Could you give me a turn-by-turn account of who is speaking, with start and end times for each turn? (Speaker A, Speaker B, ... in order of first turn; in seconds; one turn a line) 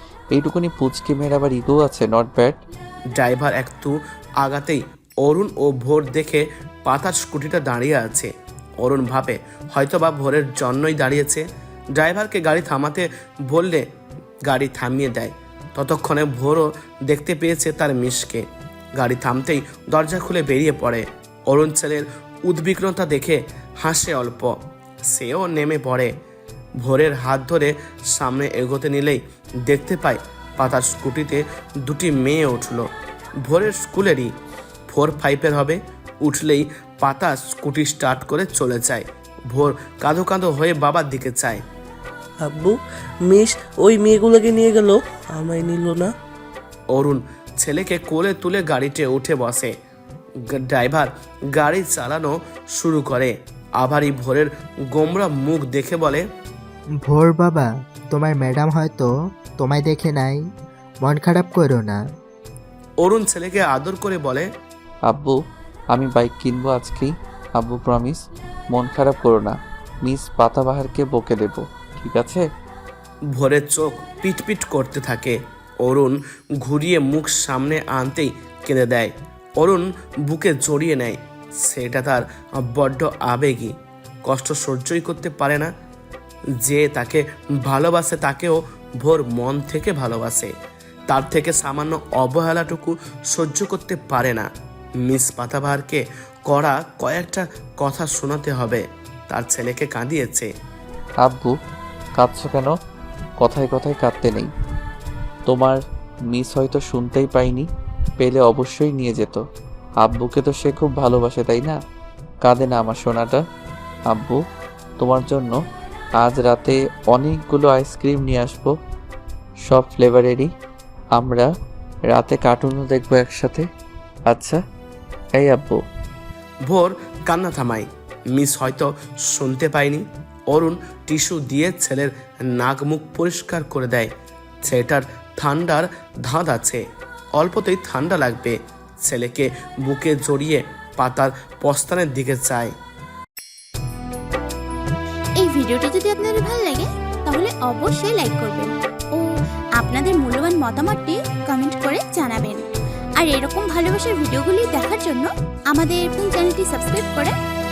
Speaker A: 0.3-2.6
Speaker B: 3.2-11.4
Speaker B: 12.0-13.8
Speaker B: 14.5-18.4
Speaker B: 19.0-26.1
Speaker B: 26.8-32.9
Speaker B: 33.4-34.3
Speaker B: 34.9-41.6
Speaker C: 42.4-46.1
Speaker B: 46.9-49.7
Speaker B: 50.5-56.2
Speaker D: 57.0-60.5
Speaker D: 61.0-62.0
Speaker B: 63.0-64.5
Speaker A: 65.1-65.4
Speaker A: 65.9-68.2
Speaker A: 68.7-72.4
Speaker B: 73.3-83.7
Speaker B: 84.2-85.7
Speaker B: 86.6-90.5
Speaker B: 91.1-94.5
Speaker B: 95.0-100.5
Speaker A: 101.2-101.5
Speaker A: 102.2-102.7
Speaker A: 103.4-104.5
Speaker A: 105.5-109.4
Speaker A: 110.0-111.8
Speaker A: 112.5-113.4
Speaker A: 114.1-114.4
Speaker A: 115.0-115.6
Speaker A: 116.2-118.7
Speaker A: 119.7-120.5
Speaker A: 121.2-121.5
Speaker A: 122.1-123.7
Speaker A: 124.3-124.6
Speaker A: 125.3-125.8
Speaker B: 126.7-134.1
Speaker B: 134.7-136.8
Speaker B: 137.4-142.7
Speaker E: 145.4-152.7
Speaker E: 153.2-157.3